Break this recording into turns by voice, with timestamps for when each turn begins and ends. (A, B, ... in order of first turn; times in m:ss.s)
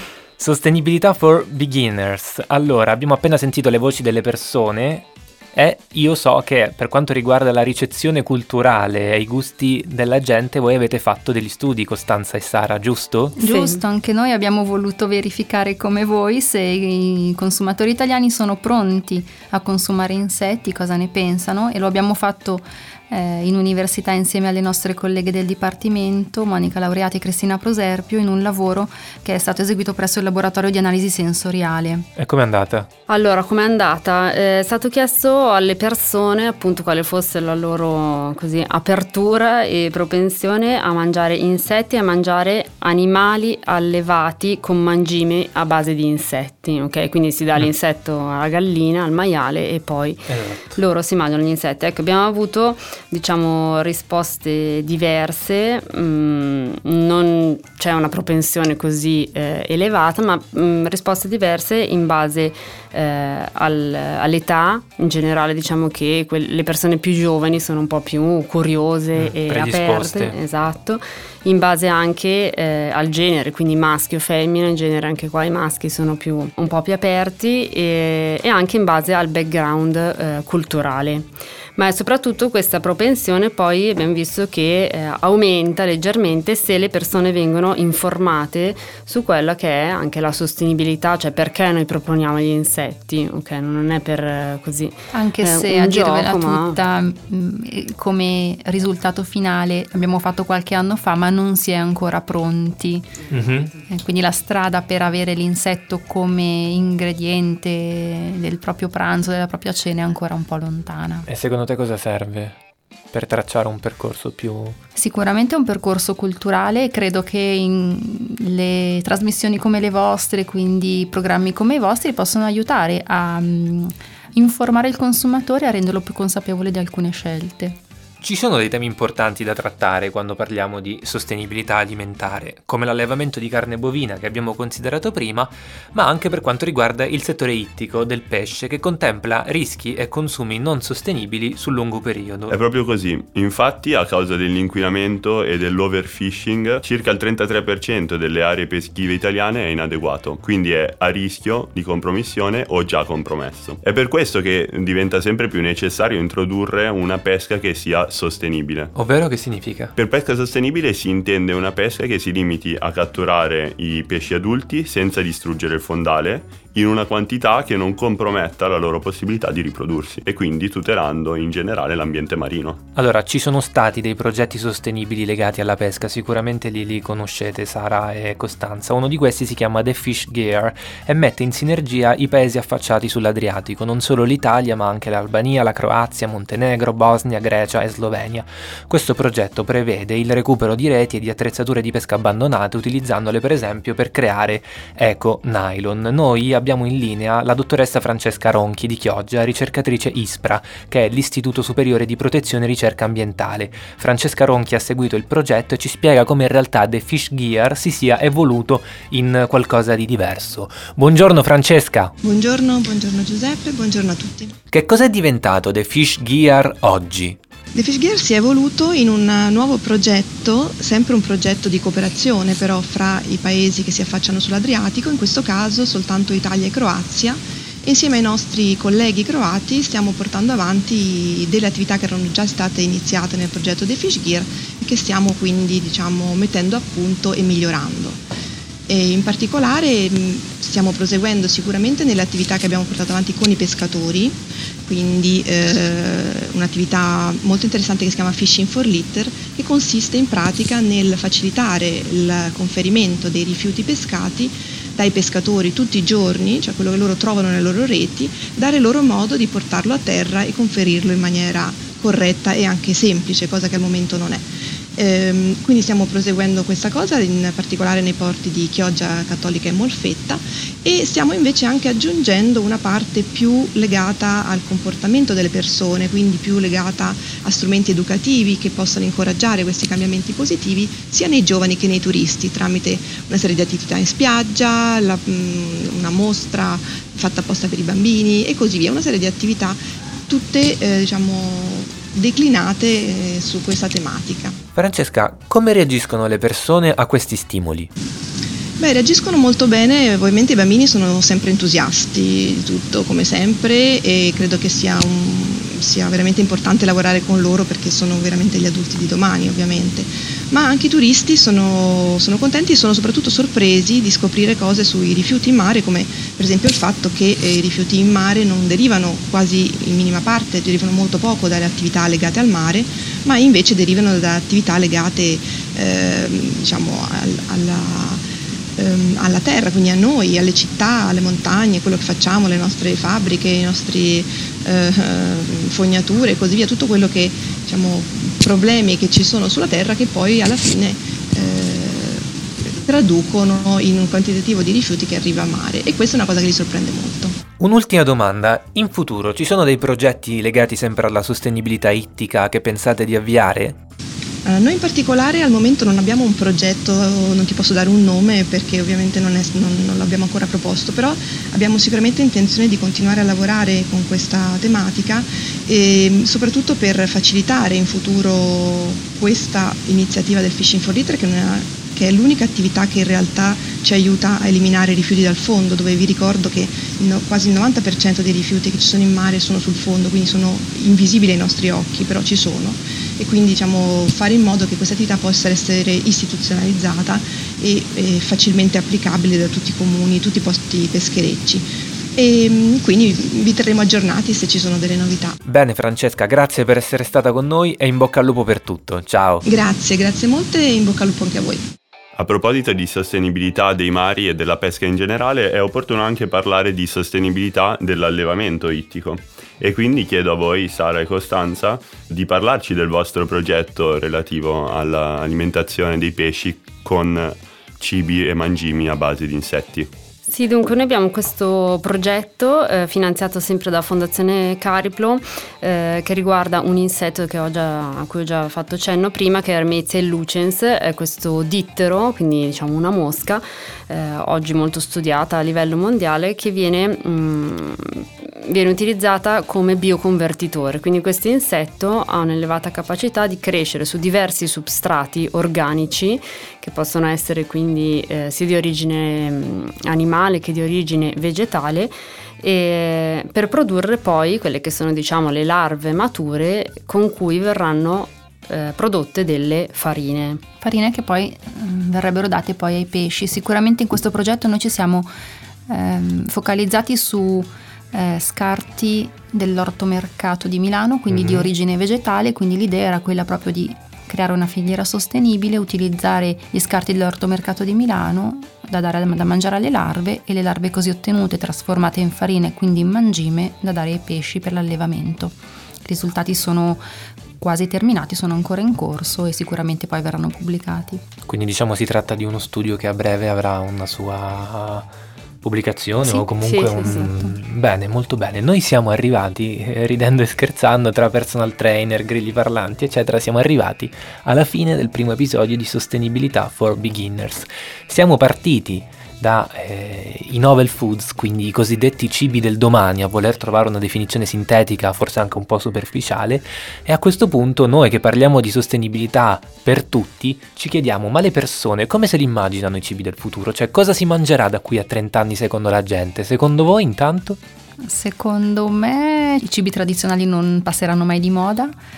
0:00.4-0:13.4 A
0:13.4-0:32.1 B
0:13.4-0:13.8 C
0:32.2-0:32.9 A
0:33.1-1:36.8 C
0:50.3-0:50.7 A
1:09.2-1:10.4 A
1:35.1-1:43.1 B
1:43.3-1:43.7 A
1:43.9-1:51.3 B
1:51.3-1:52.6 A
1:53.1-1:54.8 A
1:55.0-2:07.8 B
2:08.2-2:22.6 A
2:22.5-2:38.9 D
2:39.0-2:39.9 A
2:40.0-2:52.8 D
2:53.0-3:32.1 A
3:32.2-3:34.5 E
3:34.7-3:37.4 A
3:37.7-3:58.2 E
3:58.9-4:54.6 E
4:54.8-4:57.9 A
4:58.8-5:28.3 E
5:28.8-5:47.4 E
5:47.6-5:53.8 A
5:54.4-6:35.4 E
6:35.4-6:39.4 A
6:39.5-6:41.7 E
6:42.2-6:59.9 D
7:00.3-7:40.4 C
7:40.6-7:45.1 B
7:45.7-8:06.8 B
7:51.1-7:51.5 A
8:07.4-8:11.0 B
8:11.3-8:14.9 A
8:15.4-8:47.4 A
8:16.1-8:17.1 C
8:47.8-8:51.7 B